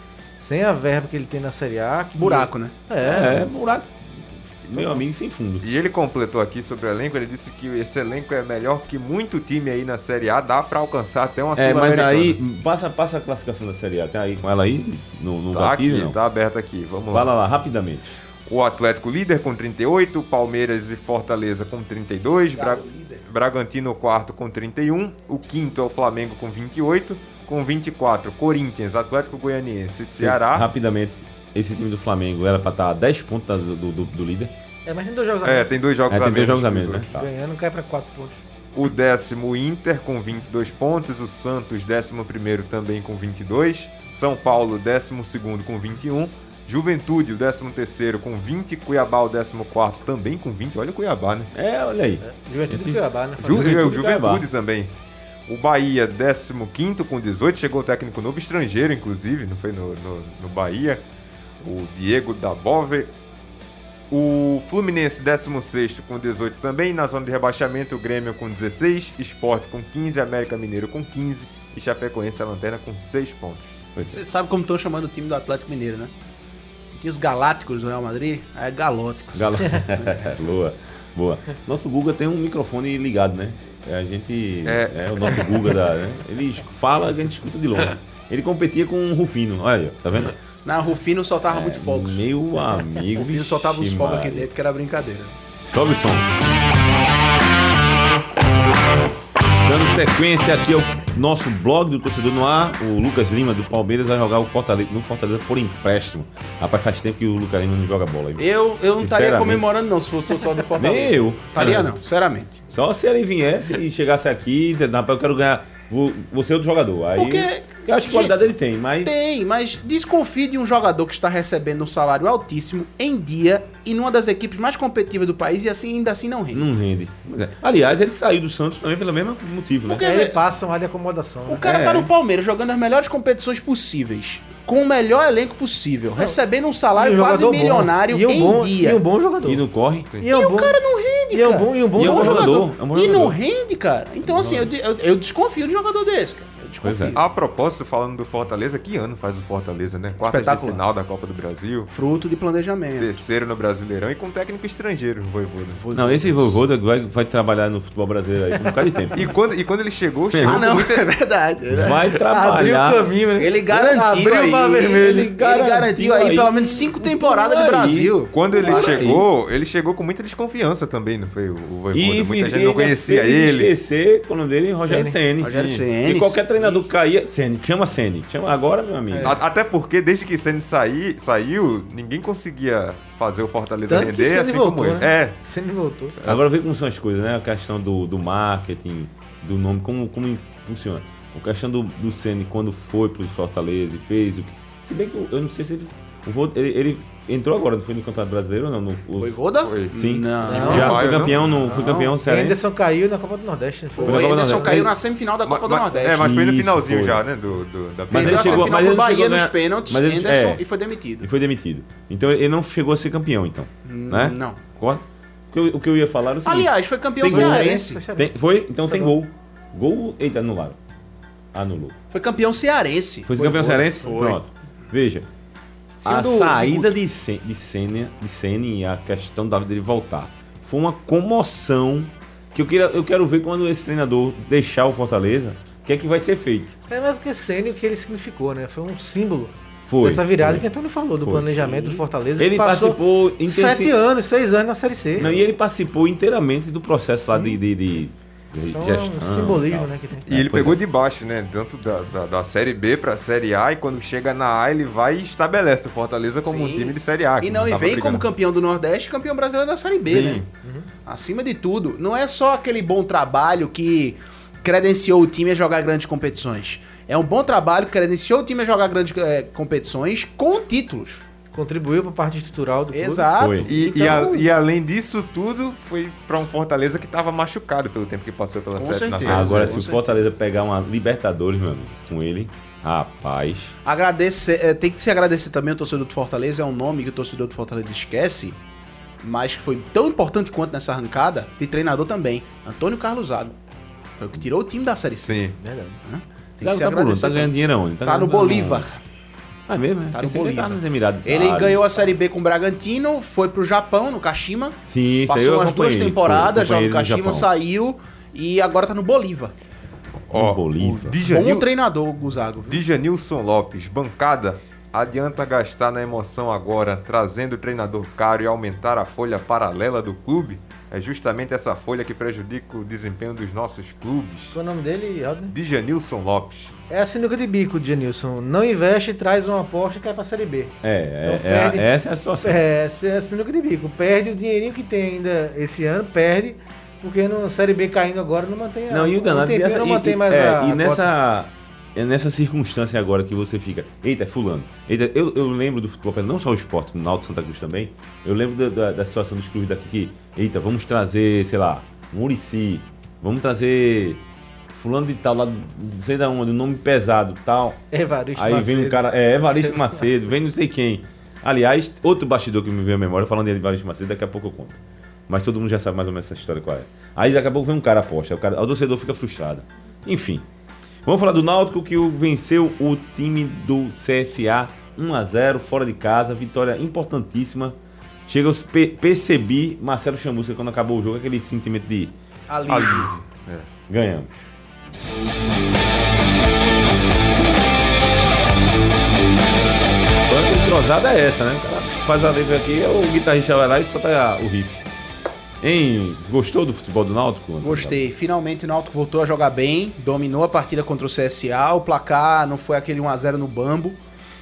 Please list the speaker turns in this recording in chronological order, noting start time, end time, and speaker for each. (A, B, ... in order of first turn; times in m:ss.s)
0:00.4-0:03.5 A
0:02.2-0:02.7 B
0:03.0-0:05.6 C
0:05.6-0:12.4 D
0:11.6-0:16.2 C
0:15.4-0:17.3 D
0:17.1-0:18.2 C
0:18.4-0:30.7 D
0:22.5-0:23.2 B
0:30.2-0:34.5 C
0:34.8-0:35.8 A
0:35.4-0:37.1 D
0:36.1-0:37.3 C
0:37.0-0:38.4 A
0:38.7-0:51.5 D
0:51.5-0:54.4 C
0:52.2-0:53.8 A
0:53.4-0:54.9 D
0:55.5-1:01.0 D
1:01.6-1:03.1 D
1:04.1-1:13.8 D
1:14.0-1:14.2 C
1:14.0-1:16.1 B
1:16.9-1:20.3 B
1:19.3-1:30.3 C
1:24.6-1:25.6 D
1:30.6-1:32.2 B
1:31.5-1:34.5 C
1:33.1-1:35.3 B
1:35.6-1:36.3 C
1:39.6-1:49.7 C
1:48.4-1:52.6 B
1:50.8-1:51.9 C
1:52.7-1:59.1 C
1:57.2-2:06.7 B
2:06.5-2:10.1 C
2:09.9-2:10.4 B
2:09.9-2:11.6 A
2:11.5-2:19.0 B
2:11.6-2:12.1 C
2:16.9-2:19.6 A
2:19.4-2:20.1 C
2:20.2-2:20.8 A
2:20.3-2:27.2 B
2:21.3-2:22.7 A
2:22.0-2:23.4 C
2:24.2-2:24.7 C
2:26.8-2:27.2 C
2:27.1-2:31.9 D
2:30.3-2:30.8 B
2:31.9-2:33.1 B
2:33.0-2:35.8 D
2:35.8-2:36.6 B
2:35.9-2:39.3 C
2:39.1-2:41.1 D
2:40.3-2:40.8 C
2:40.4-2:42.0 B
2:41.7-2:43.1 C
2:42.1-2:45.3 A
2:43.4-2:49.0 B
2:45.0-2:49.3 C
2:48.3-2:53.7 D
2:51.9-2:59.4 C
2:54.8-2:55.2 A
2:55.4-2:56.9 B
2:55.4-2:55.8 D
2:59.1-2:59.4 B
2:59.2-3:05.4 D
3:03.9-3:06.2 A
3:06.2-3:06.4 D
3:06.2-3:19.3 C
3:19.2-3:22.2 B
3:19.6-3:19.9 D
3:19.9-3:22.6 C
3:20.4-3:21.0 A
3:20.6-3:21.4 D
3:22.2-3:24.8 A
3:24.0-3:26.3 B
3:24.0-3:24.9 C
3:25.4-3:28.8 D
3:26.1-3:27.2 C
3:28.1-3:30.6 C
3:28.1-3:31.3 B
3:31.2-3:40.8 C
3:33.8-3:34.6 B
3:36.4-3:38.0 B
3:37.3-3:39.1 A
3:41.5-3:42.0 C
3:42.1-3:44.4 B
3:43.3-3:45.3 C
3:46.0-3:46.9 B
3:46.0-3:56.7 C
3:56.9-4:05.3 A
3:59.9-4:00.6 C
4:01.2-4:03.9 C
4:05.2-4:10.8 C
4:07.3-4:07.6 A
4:08.7-4:10.3 A
4:10.3-4:18.3 D
4:16.4-4:20.4 B
4:20.0-4:20.5 D
4:20.6-4:20.9 A
4:21.0-4:31.2 B
4:31.5-4:33.3 A
4:32.9-4:34.4 B
4:33.4-4:33.7 C
4:33.6-4:39.8 D
4:38.8-4:40.2 B
4:39.2-4:43.7 C
4:43.8-4:48.6 B
4:49.2-4:53.6 B
4:54.2-4:59.0 B
4:55.2-4:55.5 D
4:55.6-4:56.0 A
4:56.6-4:58.9 C
4:59.7-5:01.8 C
5:00.1-5:09.5 B
5:04.9-5:07.5 C
5:10.3-5:11.7 D
5:10.3-5:11.2 C
5:11.2-5:12.8 B
5:12.6-5:24.6 D
5:24.5-5:25.5 A
5:25.5-5:26.7 D
5:26.9-5:31.9 A
5:30.8-5:32.6 C
5:32.4-5:41.1 A
5:38.9-5:57.8 C
5:57.9-6:00.3 A
5:58.4-6:10.4 C
6:11.0-6:22.1 C
6:22.5-6:23.1 B
6:22.7-6:23.7 D
6:23.9-6:24.3 C
6:30.3-6:34.9 C
6:35.6-6:38.1 C
6:37.6-6:44.0 B